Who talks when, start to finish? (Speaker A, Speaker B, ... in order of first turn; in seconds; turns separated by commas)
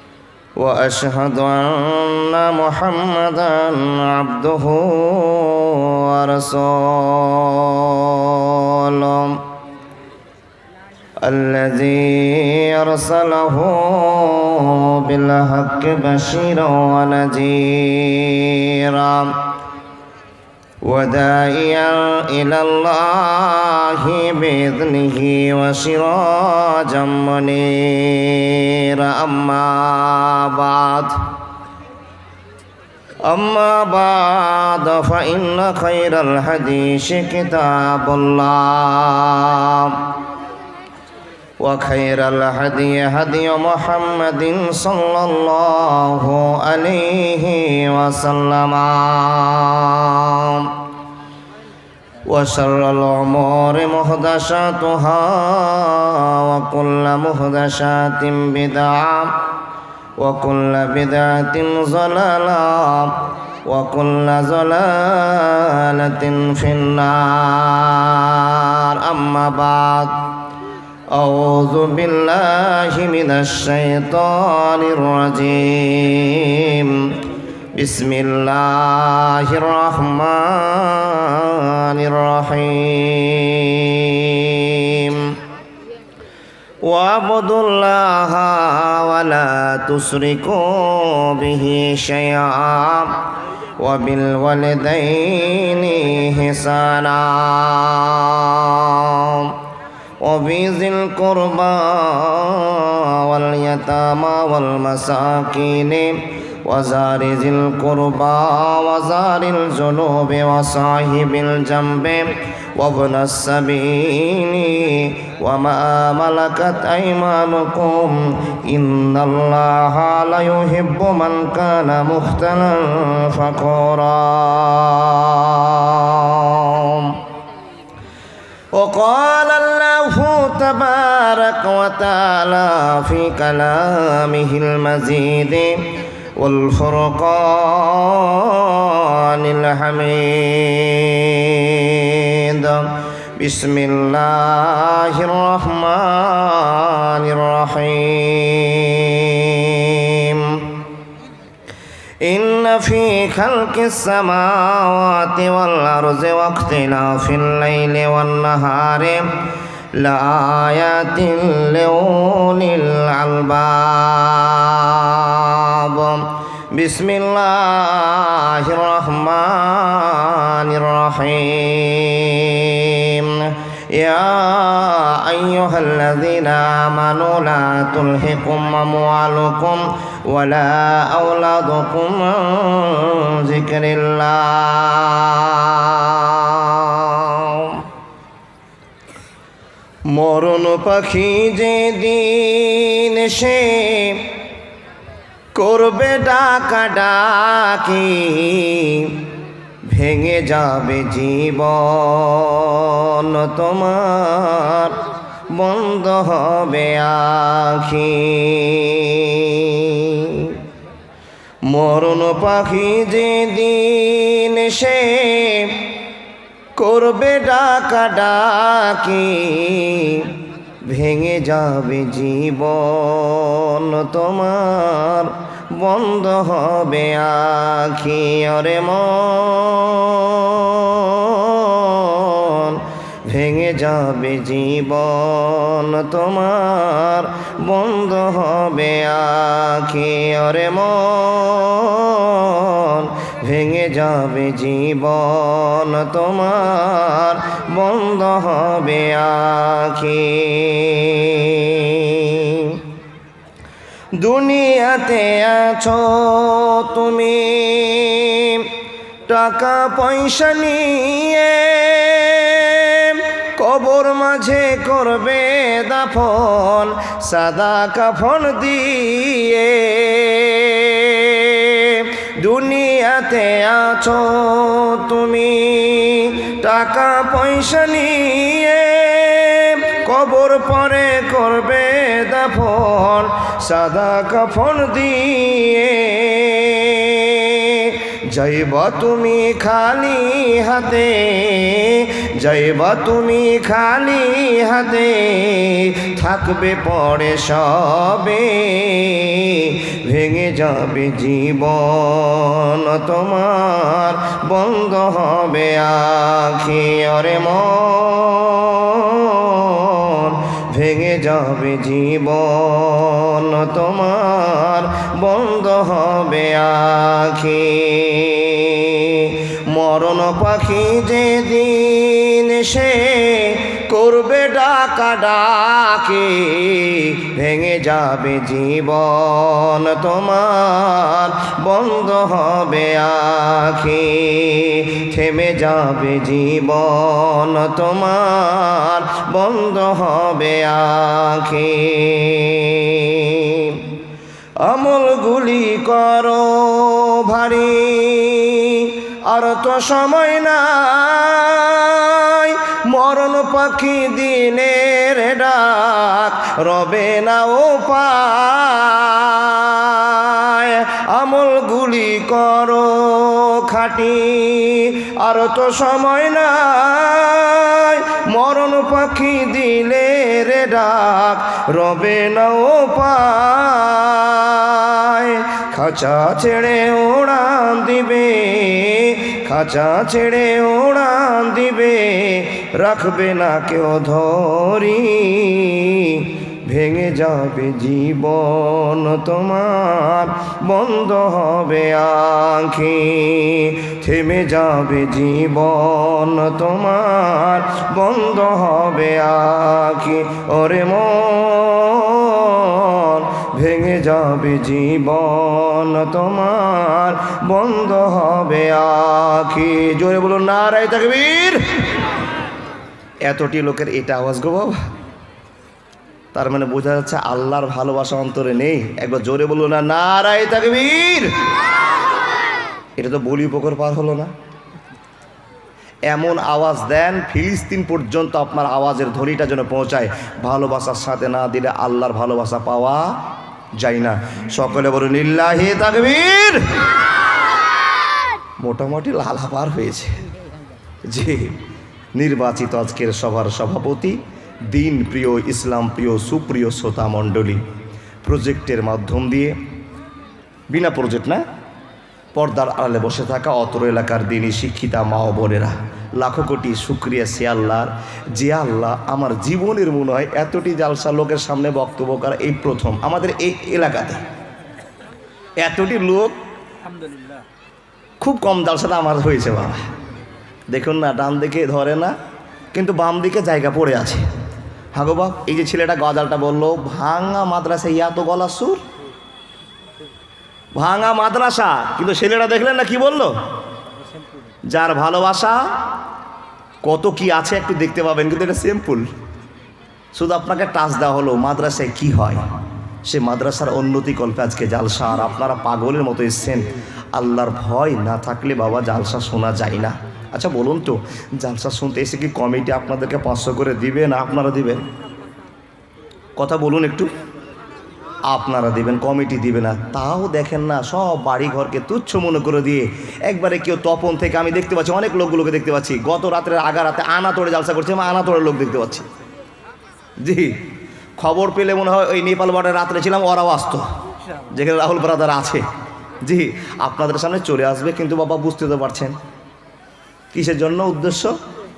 Speaker A: 0.6-9.4, Speaker A: 11.2-19.5, Speaker A: 20.8-31.3, Speaker A: 33.2-40.1, Speaker A: 41.6-50.8, Speaker A: 52.3-59.5, Speaker A: 60.2-70.3, Speaker A: 71.1-85.3, Speaker A: 86.8-93.2, Speaker A: 93.8-99.6, Speaker A: 100.2-127.2, Speaker A: 128.7-135.8, Speaker A: 136.3-150.8, Speaker A: 152.2-159.3, Speaker A: 159.9-187.8, Speaker A: 190.1-194.2, Speaker A: 195.5-199.2, Speaker A: 199.9-204.9, Speaker A: 205.5-210.6, Speaker A: 211.7-215.8, Speaker A: 216.8-220.3, Speaker A: 220.8-252.8, Speaker A: 254.2-258.7, Speaker A: 259.3-343.9, Speaker A: 344.6-411.6, Speaker A: 413.2-414.8, Speaker A: 416.3-421.3, Speaker A: 423.0-424.3, Speaker A: 426.1-433.1, Speaker A: 433.8-436.6, Speaker A: 438.6-440.2, Speaker A: 441.1-441.6, Speaker A: 442.1-444.2, Speaker A: 444.7-447.6, Speaker A: 448.2-449.6, Speaker A: 450.7-451.4, Speaker A: 452.3-464.2, Speaker A: 465.6-466.3, Speaker A: 468.2-469.8, Speaker A: 470.7-472.1, Speaker A: 472.7-474.2, Speaker A: 474.9-478.8, Speaker A: 480.8-483.3, Speaker A: 484.7-485.6, Speaker A: 486.8-489.1, Speaker A: 490.1-492.4, Speaker A: 493.1-504.8, Speaker A: 506.4-507.1, Speaker A: 508.3-519.1, Speaker A: 520.2-520.5, Speaker A: 521.2-523.8, Speaker A: 524.5-525.6, Speaker A: 526.2-529.2, Speaker A: 530.3-531.4